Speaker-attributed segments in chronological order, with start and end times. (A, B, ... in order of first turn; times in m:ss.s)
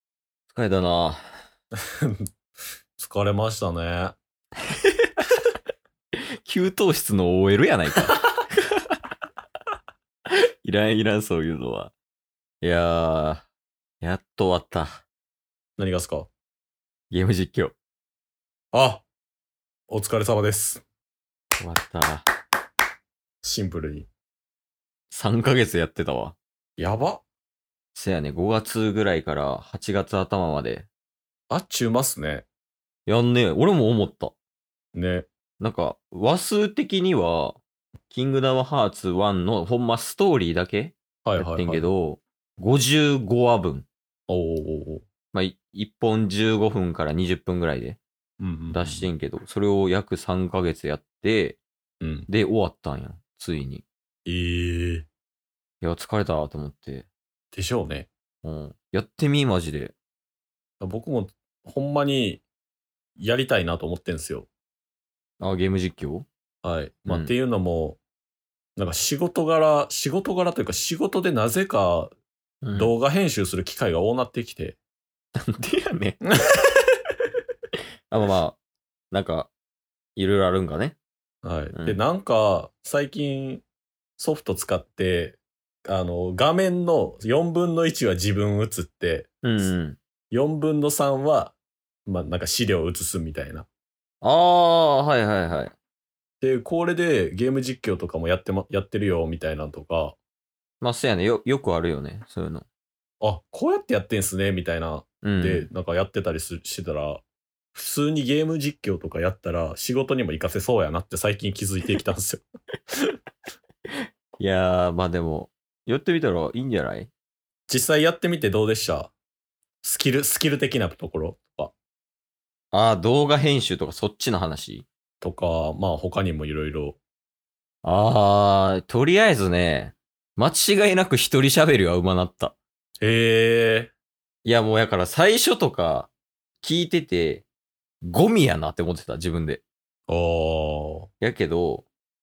0:00.5-0:01.2 A
0:03.0-0:04.2 B
0:04.8-0:05.1 A
0:06.4-0:09.0 A
0:10.6-0:11.9 A
0:12.6-0:13.5 A
0:14.0-0:15.0 A
0:15.8-0:16.3 B
0:17.1-0:17.7 A
0:18.7-0:19.0 B
0:19.9-0:20.8 B
0:21.6-0:22.2 A
0:23.4-0:24.1 B
0:25.1-0:26.4 A
0:26.8-0:27.2 B
0:27.9-0:30.9 A
0:31.5-0:32.4 B
0:33.1-0:34.3 A
0:34.9-0:35.3 B
0:35.6-0:37.6 A
0:38.1-0:43.9 A
0:41.2-0:41.8 B
0:44.3-0:45.0 B
0:45.3-0:48.0 A
0:48.4-0:49.1 B
0:48.7-0:51.6 A
0:52.0-0:52.3 B
0:52.3-0:53.8 A
0:54.2-0:55.0 B
0:55.8-0:57.1 A
0:57.5-0:58.1 B
0:58.4-0:59.9 A
1:00.8-1:02.4 B
1:03.2-1:04.5 B
1:05.4-1:06.3 A
1:06.6-1:08.0 B
1:07.1-1:07.3 A
1:08.8-1:12.1 B
1:12.6-1:12.9 A
1:12.8-1:14.8 B
1:15.4-1:16.2 A
1:18.1-1:18.6 A
1:19.1-1:19.5 A
1:20.2-1:21.0 A
1:21.4-1:23.6 B
1:21.7-1:22.0 A
1:24.2-1:29.7 B
1:29.4-1:30.0 A
1:30.3-1:33.7 B
1:34.2-1:35.7 A
1:36.4-1:40.2 B
1:40.8-1:42.6 A
1:43.2-1:47.2 B
1:45.2-1:45.7 A
1:47.7-1:52.4 B
1:53.9-1:57.1 A
1:57.7-1:59.1 B
1:59.8-2:01.7 B
2:02.7-2:04.8 A
2:05.2-2:07.0 B
2:07.8-2:12.6 A
2:13.0-2:13.9 B
2:14.4-2:16.1 A
2:16.6-2:17.4 A
2:18.0-2:19.6 A
2:20.1-2:21.1 B
2:21.2-2:21.9 A